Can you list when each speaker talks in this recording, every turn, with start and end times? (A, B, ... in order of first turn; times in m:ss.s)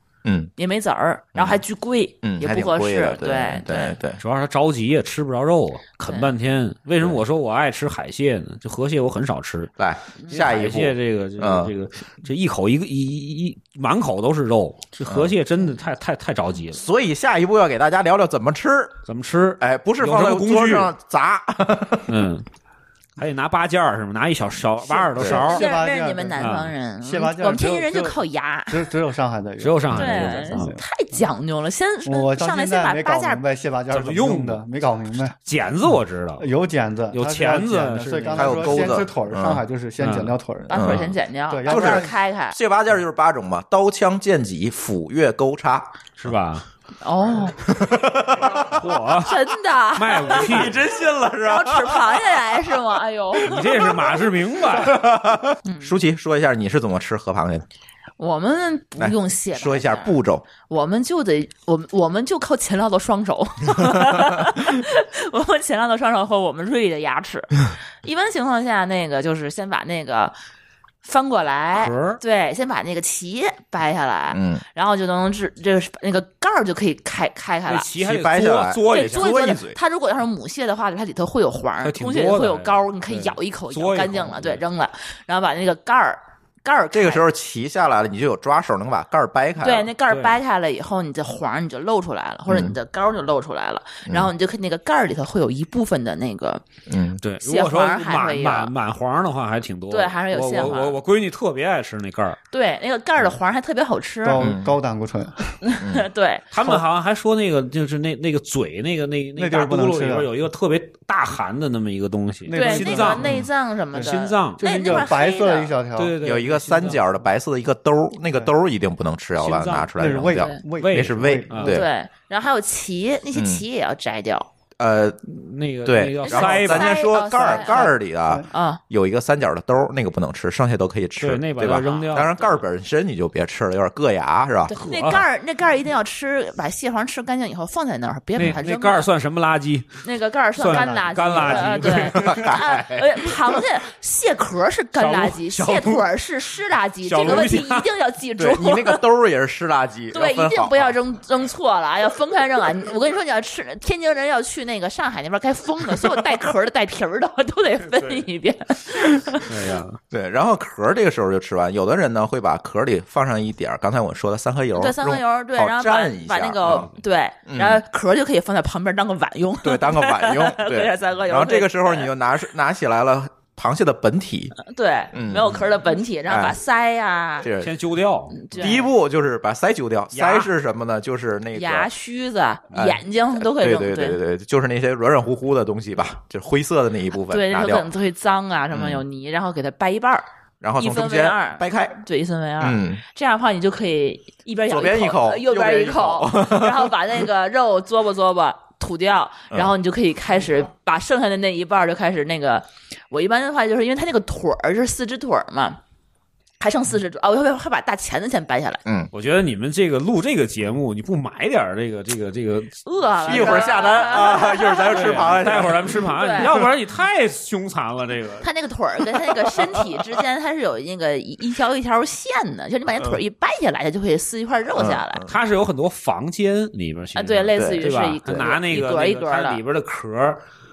0:00.2-0:00.5 A
0:00.6-0:04.0 B
0:01.4-0:01.6 A
0:02.2-0:04.2 A
0:04.2-0:09.7 C
0:06.0-0:06.3 B
0:09.8-0:11.7 A
0:10.3-0:16.8 C
0:15.1-0:15.4 A
0:16.7-0:19.0 A
0:19.1-0:20.9 C
0:19.6-0:22.1 A
0:22.1-0:22.4 C
0:23.2-0:25.7 C
0:24.9-0:28.9 B
0:25.2-0:26.5 D
0:26.4-0:26.7 C
0:27.0-0:30.8 D
0:29.6-0:30.8 C
0:29.9-0:33.4 B
0:32.0-0:35.4 D
0:33.9-0:34.6 C
0:35.5-0:36.5 C
0:36.4-0:40.8 D
0:37.1-0:39.0 C
0:38.3-0:39.6 A
0:40.0-0:40.4 C
0:40.7-0:42.6 B
0:40.7-0:41.1 A
0:41.5-0:42.2 D
0:41.7-0:45.9 A
0:46.2-0:46.7 C
0:47.0-0:47.6 B
0:47.6-0:48.9 A
0:48.6-0:49.4 C
0:49.2-0:50.8 B
0:50.0-0:50.8 C
0:50.3-0:52.8 A
0:51.4-0:54.3 B
0:53.4-0:55.0 C
0:54.7-0:57.6 A
0:55.6-0:56.0 B
0:58.2-1:10.4 B
0:59.0-1:00.5 A
1:11.0-1:17.9 B
1:11.7-1:12.2 C
1:14.3-1:14.6 A
1:17.7-1:19.4 C
1:18.0-1:19.8 A
1:18.9-1:27.2 B
1:21.8-1:24.6 C
1:26.9-1:29.9 A
1:29.6-1:36.6 B
1:30.1-1:30.4 C
1:32.5-1:32.8 A
1:36.9-1:37.2 A
1:37.2-1:42.4 C
1:37.4-1:38.7 B
1:39.9-1:41.0 B
1:42.5-1:44.5 B
1:44.2-1:45.6 D
1:44.4-1:44.8 A
1:45.6-1:46.5 B
1:45.8-1:46.1 A
1:46.5-1:53.4 C
1:49.4-1:50.3 D
1:52.5-1:56.2 D
1:52.5-1:55.7 B
1:53.9-1:55.0 C
1:56.0-1:57.0 C
1:56.2-2:01.9 A
1:59.4-2:00.0 C
2:00.0-2:01.8 D
2:00.7-2:01.8 C
2:01.7-2:04.5 B
2:03.4-2:03.6 A
2:04.8-2:05.2 A
2:05.3-2:07.0 C
2:05.8-2:14.8 A
2:06.2-2:08.0 B
2:07.5-2:08.5 D
2:08.5-2:08.8 B
2:11.2-2:12.3 C
2:11.8-2:12.6 B
2:14.7-2:19.1 B
2:14.7-2:15.2 C
2:18.4-2:20.0 C
2:20.0-2:29.0 B
2:20.6-2:22.5 C
2:20.6-2:22.1 D
2:22.1-2:23.6 A
2:25.0-2:26.0 C
2:27.0-2:27.9 C
2:28.4-2:31.0 A
2:30.1-2:39.6 B
2:38.0-2:38.2 C
2:39.5-2:40.0 C
2:40.1-2:46.9 A
2:44.8-2:52.1 B
2:46.7-2:46.9 C
2:47.5-2:47.8 A
2:49.6-2:54.6 A
2:54.6-2:57.5 B
2:55.1-2:55.7 A
2:56.3-2:56.6 A
2:57.4-2:57.7 A
2:57.6-2:58.7 C
2:58.3-2:58.9 B
2:58.5-3:01.9 A
3:00.1-3:00.5 C
3:01.5-3:04.2 B
3:02.7-3:07.9 A
3:07.3-3:10.3 B
3:08.7-3:09.0 A
3:10.6-3:12.0 A
3:10.8-3:25.8 B
3:12.6-3:13.0 A
3:14.7-3:17.1 A
3:26.6-3:28.8 B
3:28.8-3:29.1 A
3:29.1-3:33.8 C
3:32.8-3:36.6 B
3:33.2-3:36.7 A
3:34.9-3:38.5 C
3:38.4-3:45.2 B
3:39.5-3:39.8 A
3:44.7-3:45.4 A
3:45.3-3:50.4 C
3:47.2-3:49.6 B
3:47.6-3:47.9 A